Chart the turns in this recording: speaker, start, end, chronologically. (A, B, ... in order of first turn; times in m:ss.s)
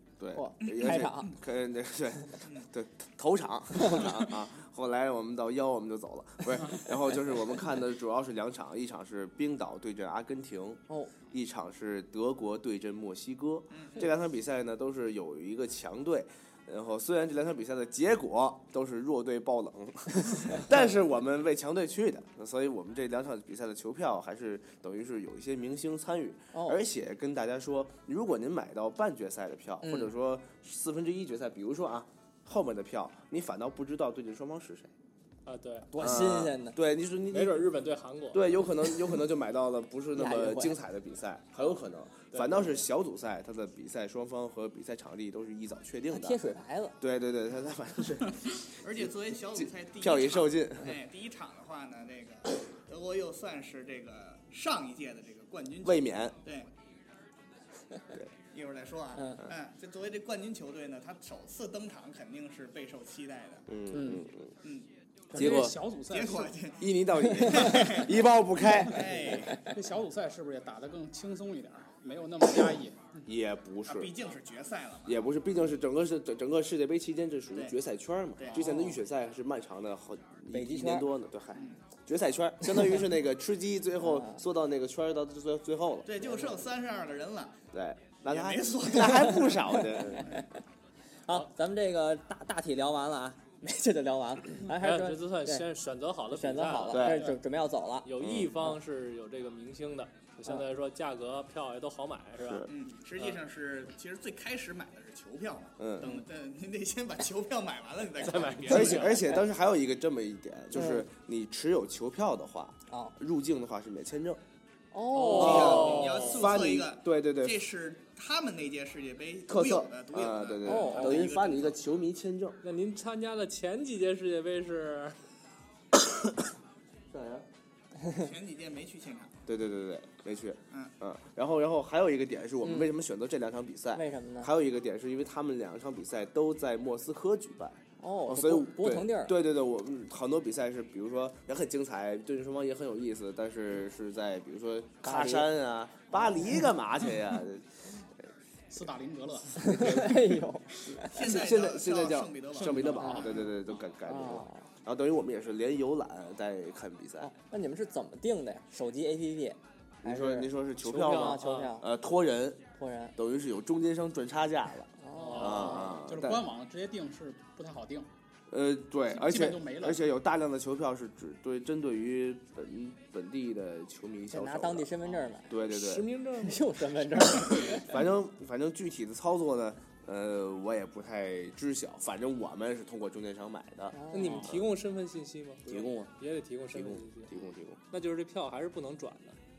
0:00.2-0:34.9 A
0:00.4-0:01.4 B
0:00.7-0:01.0 C
0:13.7-0:14.1 C
0:26.5-0:26.8 B
0:29.8-0:30.1 B
0:35.5-0:35.9 D
0:35.9-0:36.8 B
0:36.0-0:37.7 A
0:37.3-0:38.8 D
0:38.3-0:46.4 A
0:40.2-0:40.8 B
0:42.3-0:42.8 D
0:46.1-0:47.0 B
0:47.0-0:50.9 A
0:48.8-0:56.7 C
0:55.8-0:56.4 A
0:58.5-1:03.6 C
0:59.2-0:59.4 B
1:03.7-1:04.5 A
1:03.9-1:04.2 B
1:05.3-1:06.6 E
1:05.4-1:05.8 A
1:06.1-1:06.9 C
1:06.8-1:09.3 A
1:07.5-1:08.2 C
1:08.8-1:09.7 C
1:09.6-1:13.2 E
1:13.3-1:14.1 A
1:13.9-1:15.3 C
1:15.1-1:26.4 A
1:18.4-1:18.7 C
1:20.5-1:21.1 B
1:21.5-1:21.8 C
1:24.0-1:24.4 B
1:26.1-1:27.6 C
1:27.7-1:30.3 A
1:28.3-1:30.4 C
1:30.2-1:30.4 B
1:31.3-1:35.6 B
1:34.8-1:37.3 D
1:36.3-1:38.1 B
1:36.9-1:37.3 A
1:38.0-1:43.4 D
1:38.2-1:38.6 A
1:42.4-1:42.7 A
1:42.7-1:49.4 C
1:45.8-1:46.2 A
1:48.2-1:49.2 D
1:48.7-1:54.4 A
1:50.8-1:51.1 B
1:54.9-1:56.0 B
1:55.1-1:56.5 D
1:55.3-2:01.8 C
1:55.3-1:57.7 A
1:59.5-2:02.6 A
2:00.6-2:01.2 B
2:02.6-2:05.2 D
2:07.1-2:07.5 A
2:08.1-2:09.4 C
2:09.5-2:27.7 A
2:12.6-2:12.9 B
2:14.0-2:14.5 B
2:18.0-2:19.4 B
2:25.0-2:25.5 B
2:28.7-2:29.8 E
2:29.6-2:31.2 B
2:29.6-2:37.3 A
2:31.1-2:33.4 C
2:32.6-2:33.3 D
2:33.0-2:33.3 B
2:34.1-2:34.6 B
2:37.2-2:41.9 B
2:40.0-2:42.6 A
2:40.8-2:41.7 D
2:42.8-2:43.1 B
2:43.2-2:46.5 A
2:45.0-2:45.8 B
2:45.2-2:45.9 D
2:45.8-2:48.1 E
2:48.5-2:55.0 A
2:49.1-2:50.0 E
2:54.3-2:55.5 B
2:55.5-2:56.1 A
2:55.6-2:57.5 D
2:56.4-2:57.9 B
2:57.7-3:04.7 A
3:03.9-3:04.5 B
3:04.1-3:07.3 D
3:05.7-3:06.1 A
3:06.7-3:07.8 A
3:07.9-3:09.4 D